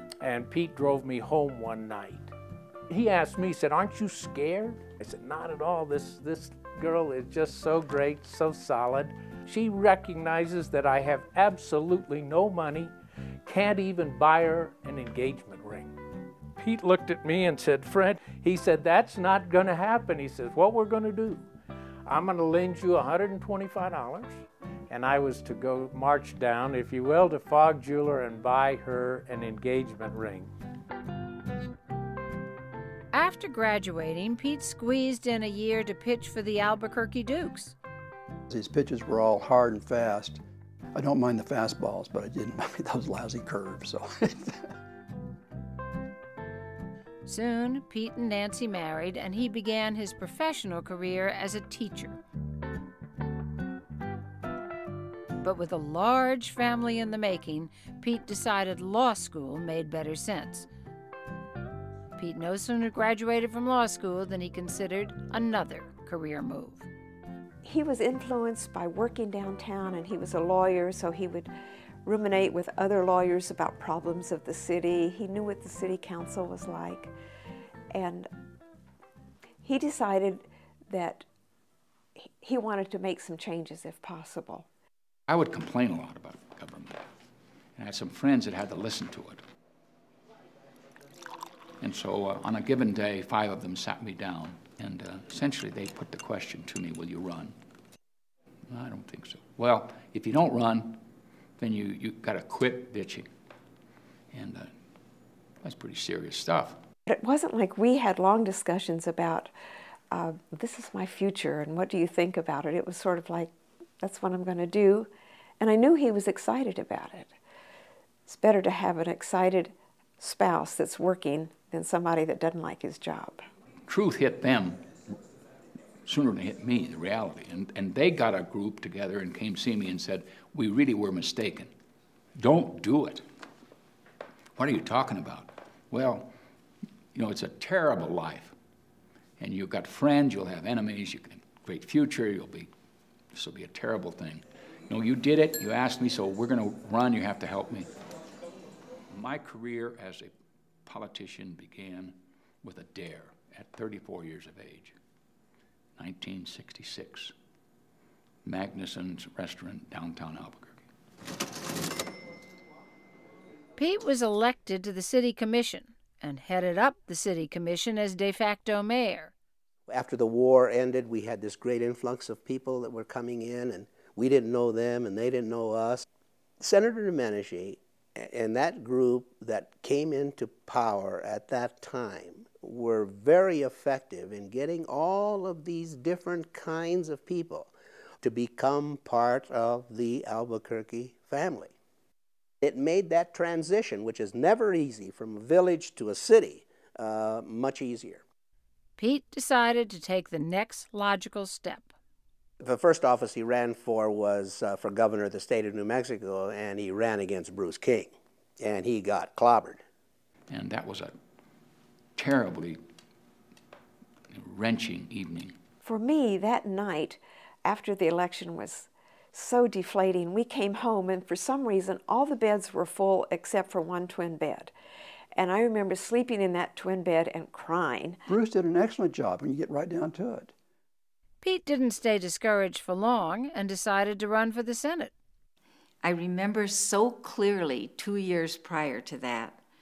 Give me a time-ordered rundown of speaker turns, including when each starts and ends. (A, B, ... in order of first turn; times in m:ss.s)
0:00.2-0:02.3 A
0:02.9-0:12.9 A
0:13.4-0:15.9 A
0:16.6-0:21.5 A
0:22.1-0:30.5 A
0:33.1-0:37.7 B
0:38.5-0:40.4 C
0:40.9-0:44.6 C
0:47.2-0:52.2 B
0:55.4-1:00.7 B
1:02.2-1:06.8 B
1:07.6-1:11.5 D
1:12.0-1:17.1 D
1:17.9-1:18.3 D
1:19.6-1:21.2 D
1:22.2-1:24.6 D
1:25.3-1:27.0 E
1:27.8-1:29.4 E
1:31.8-1:37.5 E
1:38.7-1:41.0 E
1:41.6-1:43.3 E
1:44.3-1:44.7 E
1:45.6-1:46.8 E
1:47.1-1:49.5 D
1:50.1-1:57.3 D
1:58.3-2:03.4 D
2:03.9-2:04.8 E
2:06.0-2:11.7 E
2:12.4-2:13.2 E
2:14.6-2:16.3 E
2:17.1-2:18.5 E
2:19.4-2:22.7 E
2:23.3-2:27.9 E
2:29.1-2:30.3 E
2:30.8-2:34.9 E
2:36.0-2:37.3 E
2:38.4-2:40.8 E
2:43.8-2:49.3 B
2:49.9-2:56.0 F
2:56.6-3:11.7 F
3:12.6-3:18.2 F
3:19.0-3:21.9 B
3:22.6-3:29.8 F
3:30.5-3:31.1 E
3:32.2-3:32.8 E
3:34.3-3:35.5 E
3:35.8-3:44.7 D
3:45.3-3:48.2 D
3:48.2-3:50.5 C
3:51.4-3:55.1 B
3:56.0-3:59.6 G